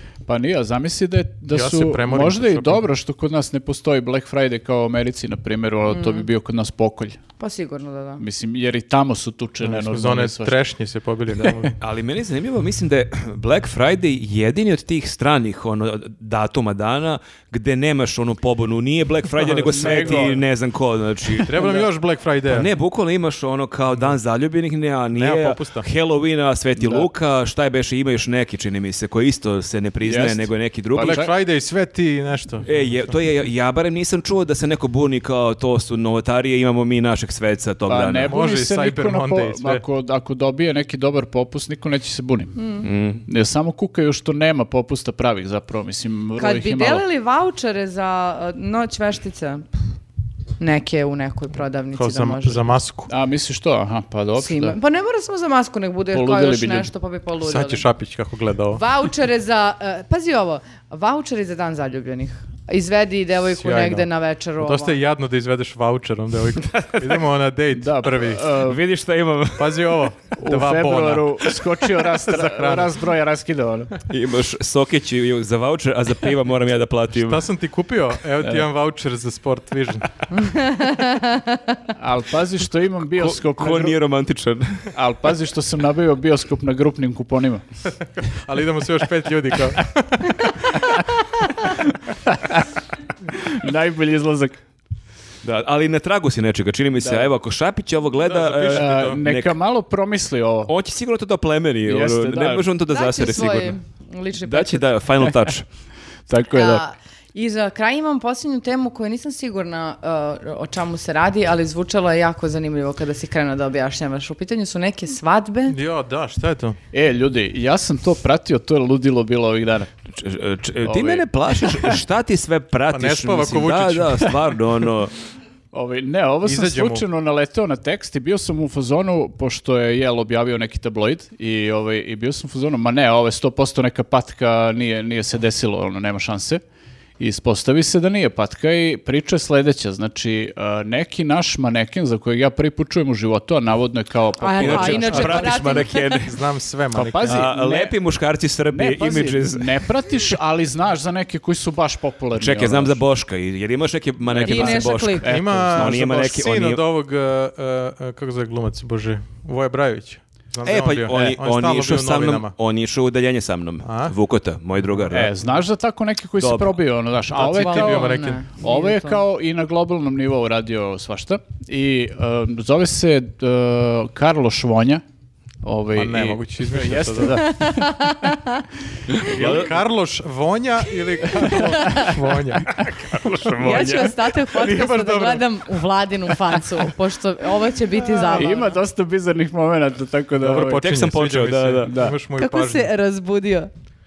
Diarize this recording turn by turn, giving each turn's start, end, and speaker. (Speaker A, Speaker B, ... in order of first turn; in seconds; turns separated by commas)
Speaker A: 0.3-7.2, Speaker B: 1.5-2.8, Speaker C: 5.9-6.3, Speaker C: 7.4-8.2, Speaker A: 8.2-10.5, Speaker B: 9.6-11.7, Speaker D: 11.8-21.7, Speaker A: 19.4-20.4, Speaker B: 19.7-20.3, Speaker B: 21.4-22.7, Speaker A: 21.5-21.9, Speaker D: 22.5-31.2, Speaker B: 25.1-25.9, Speaker A: 26.8-27.1, Speaker A: 30.0-31.3, Speaker B: 31.0-33.0, Speaker D: 32.6-38.3, Speaker A: 37.9-42.6, Speaker B: 38.3-39.8, Speaker C: 42.6-42.9, Speaker D: 42.8-43.2, Speaker A: 43.2-47.0, Speaker C: 46.4-49.6, Speaker C: 50.6-52.7, Speaker B: 51.9-53.1, Speaker A: 53.1-54.8, Speaker C: 54.4-57.9, Speaker A: 56.1-56.9, Speaker B: 57.4-58.8, Speaker C: 58.7-65.0, Speaker B: 63.6-64.1, Speaker B: 64.6-68.5, Speaker D: 66.6-67.2, Speaker A: 67.7-68.8, Speaker D: 68.6-70.0, Speaker B: 69.6-73.0, Speaker A: 70.3-73.9, Speaker D: 74.1-77.4, Speaker B: 77.2-80.2, Speaker C: 80.4-81.8, Speaker A: 82.0-84.0, Speaker D: 83.2-85.0, Speaker A: 84.9-87.6, Speaker B: 88.3-90.8, Speaker A: 92.3-92.6, Speaker A: 93.3-94.5, Speaker D: 95.4-99.5, Speaker A: 97.0-97.3, Speaker B: 98.2-99.2, Speaker A: 98.7-100.7, Speaker D: 100.7-103.7, Speaker A: 101.8-102.7, Speaker C: 102.9-104.9, Speaker D: 104.4-105.7, Speaker A: 106.3-106.8, Speaker C: 106.5-115.8, Speaker B: 115.7-116.8, Speaker A: 116.9-119.9, Speaker D: 120.1-125.1, Speaker A: 120.8-122.0, Speaker B: 122.9-124.5, Speaker A: 125.7-136.6, Speaker B: 126.4-127.0, Speaker A: 137.2-145.6, Speaker C: 144.4-146.0, Speaker D: 144.6-146.4, Speaker B: 146.2-147.5, Speaker A: 146.9-147.9, Speaker D: 147.2-149.9, Speaker A: 148.7-153.0, Speaker D: 152.3-156.8, Speaker A: 154.2-156.0, Speaker C: 154.4-155.2, Speaker B: 155.2-162.5, Speaker D: 160.6-165.3, Speaker B: 163.8-164.1, Speaker B: 164.8-165.1, Speaker A: 165.1-175.0, Speaker D: 166.4-166.8, Speaker B: 167.3-168.4, Speaker C: 167.4-169.2, Speaker A: 175.6-178.1, Speaker B: 175.9-177.5, Speaker C: 177.4-178.6, Speaker D: 179.1-179.8, Speaker B: 179.2-185.6, Speaker C: 181.6-182.1, Speaker D: 183.1-184.1, Speaker C: 183.6-188.8, Speaker A: 188.3-190.8, Speaker B: 190.4-192.9, Speaker D: 190.8-191.9, Speaker A: 191.8-192.2, Speaker C: 192.4-193.7